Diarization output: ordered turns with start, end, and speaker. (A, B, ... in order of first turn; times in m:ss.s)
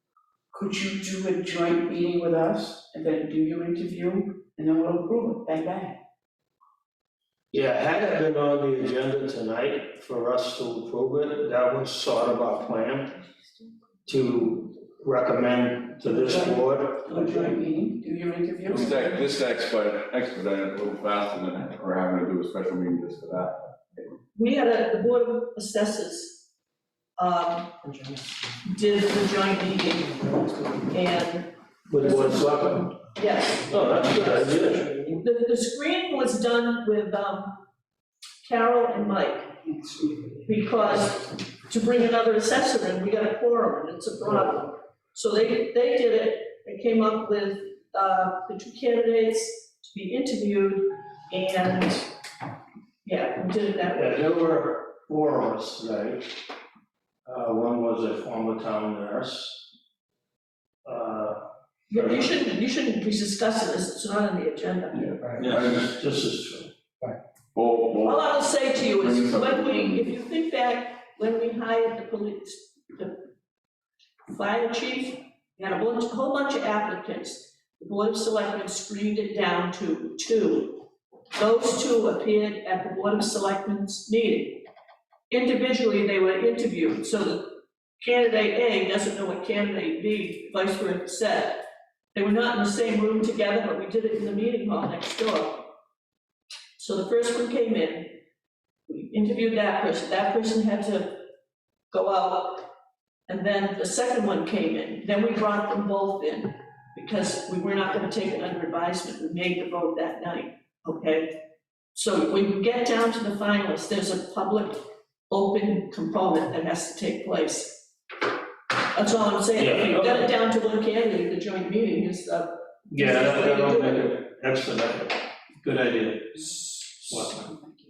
0:00.5-0:06.0 A
0:07.5-0:13.1 B
0:14.1-0:17.2 B
0:16.0-0:19.2 A
0:18.7-0:24.2 C
0:24.4-0:26.5 D
0:27.2-0:27.8 D
0:28.6-0:33.8 D
0:31.9-0:33.0 B
0:33.6-0:35.0 B
0:34.9-0:37.6 D
0:38.4-0:39.7 D
0:40.4-0:52.1 D
0:53.0-0:54.3 D
0:53.9-0:56.3 B
0:57.3-0:59.7 B
1:00.8-1:01.4 B
1:01.9-1:05.4 D
1:01.9-1:02.3 B
1:04.9-1:05.9 C
1:05.4-1:06.7 B
1:07.5-1:10.1 C
1:08.0-1:13.2 D
1:14.3-1:20.8 D
1:21.4-1:24.6 D
1:25.3-1:35.7 D
1:36.8-1:38.2 D
1:38.9-1:41.3 D
1:41.9-1:42.7 D
1:43.3-1:51.4 D
1:51.9-1:57.9 D
1:58.9-2:04.2 D
1:59.6-2:00.3 B
2:02.9-2:07.6 B